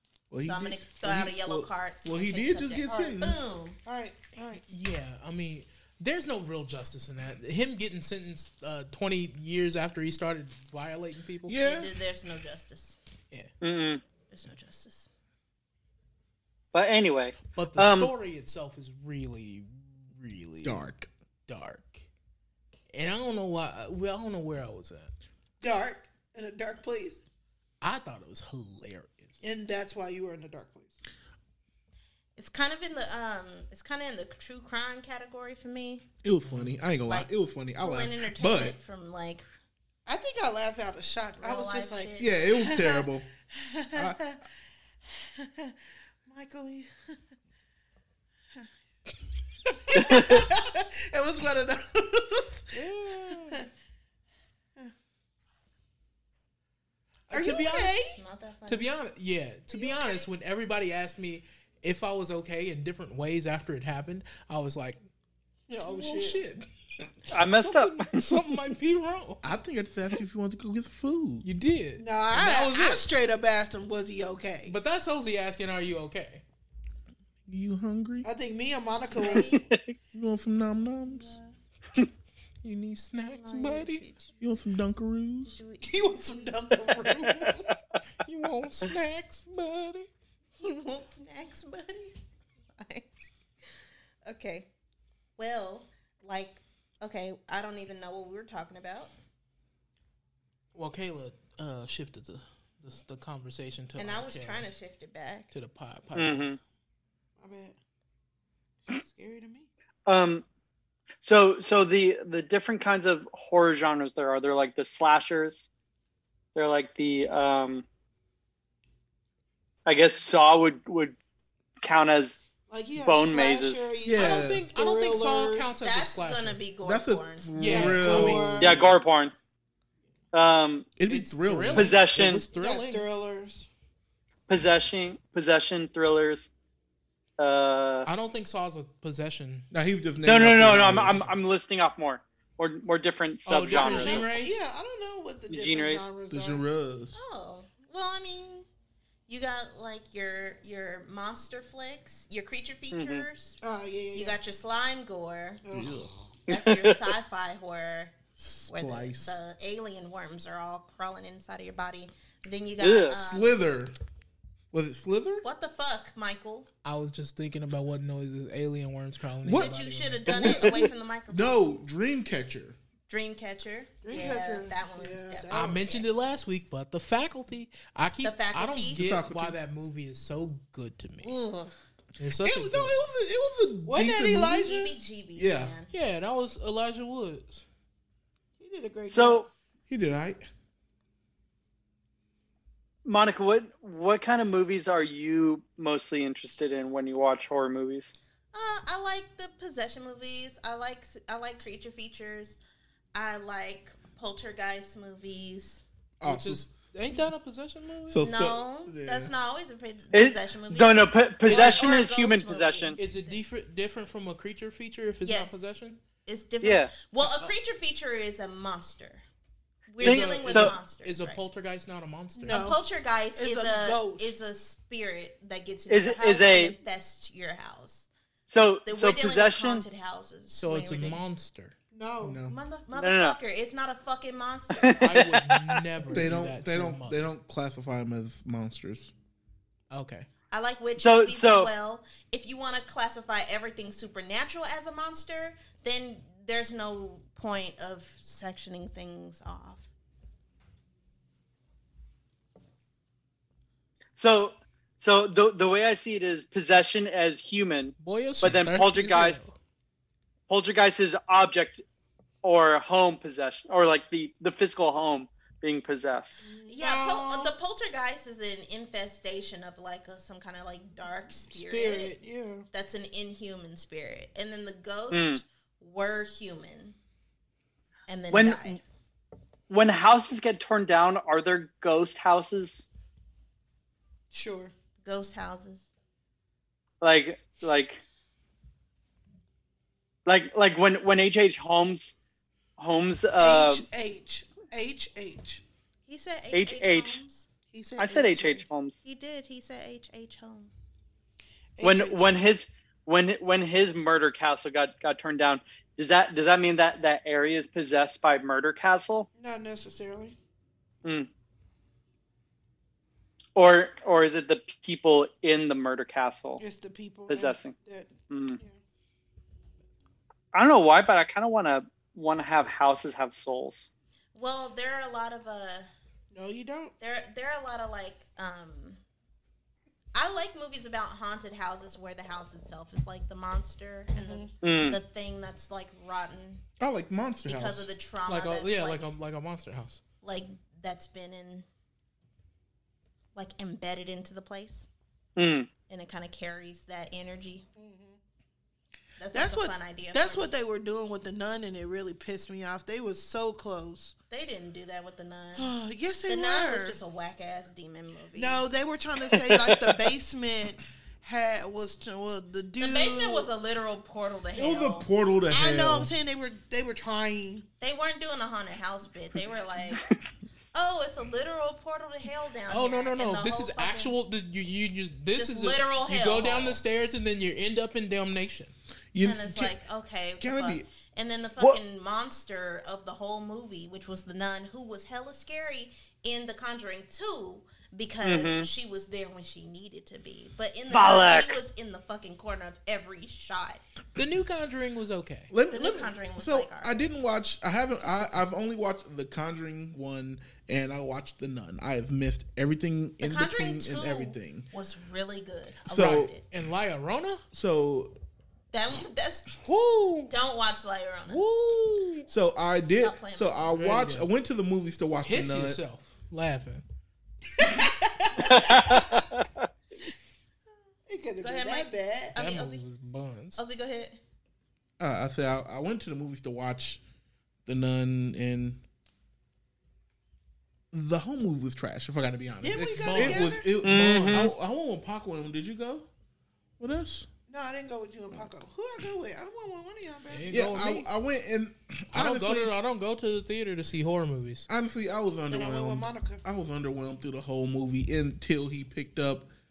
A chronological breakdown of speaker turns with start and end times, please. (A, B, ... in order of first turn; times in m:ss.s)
0:00.3-0:03.4 A
0:00.4-0:03.8 B
0:02.9-0:03.2 C
0:03.8-0:04.6 C
0:04.7-0:11.6 D
0:11.5-0:11.9 A
0:11.6-0:13.0 B
0:13.6-0:14.0 E
0:14.3-0:15.1 B
0:16.7-0:18.1 E
0:17.6-0:20.8 D
0:20.6-0:21.1 A
0:21.5-0:22.1 D
0:22.9-0:25.1 D
0:25.6-0:27.2 C
0:27.8-0:29.3 D
0:29.4-0:31.0 C
0:32.4-0:36.1 B
0:36.2-0:38.8 A
0:36.4-0:36.8 D
0:37.1-0:39.5 B
0:40.1-0:44.4 C
0:41.4-0:42.4 B
0:42.2-0:43.3 A
0:43.9-0:44.2 A
0:45.0-0:47.2 C
0:49.7-0:52.8 C
0:52.7-0:53.7 D
0:53.3-0:53.6 C
0:57.3-0:58.0 D
0:57.3-0:58.2 C
0:58.1-0:58.9 B
0:58.7-1:05.0 D
0:59.7-1:00.0 B
1:05.7-1:06.5 C
1:05.9-1:09.4 D
1:07.3-1:08.1 E
1:09.4-1:11.5 A
1:11.4-1:13.0 D
1:12.0-1:14.8 C
1:14.7-1:16.4 D
1:17.5-1:18.3 A
1:18.2-1:19.7 C
1:19.2-1:19.6 B
1:19.5-1:19.9 E
1:20.1-1:21.4 A
1:21.1-1:21.5 B
1:22.6-1:24.0 D
1:23.3-1:24.4 B
1:24.4-1:25.6 A
1:25.4-1:26.3 B
1:25.8-1:27.8 C
1:28.2-1:30.1 D
1:30.6-1:32.2 B
1:32.7-1:33.1 B
1:34.3-1:34.7 B
1:35.4-1:39.1 B
1:40.8-1:44.7 D
1:44.0-1:45.5 B
1:45.5-1:46.5 D
1:46.2-1:46.6 E
1:47.4-1:47.8 C
1:48.9-1:49.7 C
1:50.1-1:50.4 E
1:51.2-1:55.7 E
1:56.6-1:57.9 E
1:59.9-2:01.2 E
2:01.8-2:02.4 E
2:02.7-2:05.8 C
2:03.0-2:03.9 E
2:04.0-2:04.7 A
2:04.2-2:06.6 D
2:05.8-2:07.6 B
2:06.8-2:08.8 A
2:07.6-2:08.8 D
2:07.6-2:08.9 C
2:08.6-2:09.3 E
2:10.3-2:10.9 E
2:11.0-2:12.1 A
2:11.1-2:13.1 D
2:11.8-2:12.4 E
2:12.6-2:13.7 C
2:14.5-2:16.5 E
2:17.4-2:18.1 E
2:18.1-2:19.7 D
2:19.7-2:21.3 A
2:20.3-2:24.2 E
2:23.5-2:24.6 D
2:23.7-2:26.6 C
2:25.5-2:26.0 E
2:26.3-2:27.2 A
2:27.1-2:28.7 B
2:29.3-2:33.6 B
2:32.9-2:33.3 E
2:33.6-2:34.4 C
2:34.1-2:35.6 B
2:35.6-2:36.4 C
2:35.7-2:36.1 A
2:36.5-2:37.2 E
2:36.5-2:38.2 B
2:38.4-2:39.4 A
2:38.7-2:43.6 B
2:42.8-2:43.2 E
2:43.1-2:43.9 A
2:44.7-2:45.4 A
2:45.4-2:46.7 B
2:46.8-2:50.5 D
2:49.4-2:49.8 A
2:49.5-2:51.6 B
2:50.3-2:52.8 A
2:53.1-2:56.0 B
2:54.0-2:55.9 C
2:55.5-3:01.3 D
2:58.2-2:59.1 B
2:58.9-2:59.6 A
3:01.2-3:01.8 B
3:02.2-3:03.0 D
3:02.4-3:04.7 A
3:03.9-3:05.0 C
3:04.4-3:05.9 B
3:05.4-3:05.8 A
3:05.9-3:07.7 D
3:08.6-3:09.5 C
3:09.1-3:09.5 E
3:09.9-3:10.5 A
3:13.0-3:18.2 E
3:18.5-3:22.6 B
3:23.1-3:25.8 B
3:26.2-3:26.7 A
3:26.2-3:28.3 D
3:28.1-3:29.3 A
3:28.2-3:33.4 B
3:30.1-3:33.0 E
3:31.5-3:31.9 D
3:33.0-3:36.0 D
3:35.2-3:39.2 B
3:36.6-3:36.9 E
3:37.2-3:37.5 D
3:39.9-3:41.4 B
3:40.0-3:42.7 D
3:40.0-3:40.8 E
3:42.4-3:48.1 B
3:42.4-3:42.8 C
3:43.4-3:44.3 C
3:45.9-3:46.7 E
3:48.5-3:49.8 E
3:48.9-3:51.2 B
3:50.5-3:51.8 D
3:51.9-3:52.4 C
3:52.2-3:52.6 A
3:52.4-3:55.1 B
3:52.9-3:53.4 E
3:54.8-3:55.8 E
3:55.0-3:57.2 D
3:56.1-3:59.1 A
3:59.9-4:00.3 D
4:00.5-4:09.9 B
4:01.0-4:01.7 E
4:14.2-4:19.4 E
4:18.0-4:19.6 D
4:20.5-4:21.8 E
4:22.4-4:26.4 E
4:26.4-4:27.5 C
4:26.7-4:32.2 B
4:31.5-4:32.7 C
4:32.7-4:37.0 B
4:35.1-4:35.4 E
4:38.1-4:38.8 B
4:38.3-4:38.8 E
4:39.7-4:42.8 E
4:44.3-4:44.7 C
4:45.0-4:45.9 B
4:47.0-4:48.0 E
4:50.3-4:52.2 E
4:52.8-4:53.8 E
4:53.4-4:55.6 C
4:56.1-4:57.5 B
4:56.5-4:57.2 E
4:57.7-4:58.7 C
4:58.0-4:59.0 E
4:59.0-5:00.7 B
5:01.8-5:02.4 C
5:01.8-5:09.3 E
5:09.4-5:10.4 C
5:13.6-5:16.6 E
5:16.6-5:18.8 C
5:17.3-5:17.8 E
5:18.3-5:18.6 E
5:20.5-5:23.9 E
5:24.4-5:25.9 B
5:26.3-5:27.0 C
5:27.0-5:29.0 B
5:30.1-5:36.6 B
5:34.1-5:34.6 C
5:34.6-5:35.0 E
5:36.8-5:37.9 A
5:37.5-5:39.1 B
5:38.3-5:40.0 D
5:40.2-5:41.7 B
5:43.4-5:44.9 B
5:45.4-5:45.7 E
5:45.9-5:47.7 B
5:47.8-5:48.2 C
5:49.2-5:50.5 B
5:49.3-5:54.2 C
5:54.3-5:55.7 B
5:55.6-5:57.0 C
5:56.3-5:58.7 B
5:58.3-6:03.5 C
5:59.5-6:00.0 E
6:02.8-6:05.1 B
6:04.5-6:06.1 A
6:05.5-6:07.7 C
6:07.8-6:10.0 B
6:10.7-6:14.2 B
6:12.7-6:18.7 D
6:15.3-6:16.8 B
6:19.1-6:19.8 A
6:19.2-6:33.8 B
6:20.4-6:20.9 A
6:28.2-6:28.7 E
6:30.9-6:31.6 E
6:34.2-6:35.5 D
6:35.5-6:44.7 A
6:35.7-6:37.2 B
6:43.2-6:46.4 B
6:45.9-6:46.3 A
6:46.5-6:47.4 D
6:47.5-6:48.2 A
6:48.7-6:51.4 B
6:49.7-6:50.3 D
6:51.3-6:55.8 A
6:52.8-6:53.9 B
6:53.7-6:54.3 D
6:55.2-6:56.8 D
6:57.6-6:59.3 C
6:58.4-6:59.7 E
7:01.1-7:02.4 C
7:01.4-7:02.8 B
7:02.4-7:03.6 D
7:03.6-7:04.2 B
7:05.0-7:07.0 A
7:07.7-7:08.8 A
7:10.9-7:16.1 A
7:12.6-7:13.7 C
7:12.7-7:14.6 D
7:13.8-7:14.5 E
7:16.8-7:17.3 A
7:17.5-7:20.6 C
7:20.3-7:21.1 D
7:20.5-7:22.7 A
7:22.1-7:24.7 D
7:24.7-7:29.5 A
7:25.5-7:26.4 C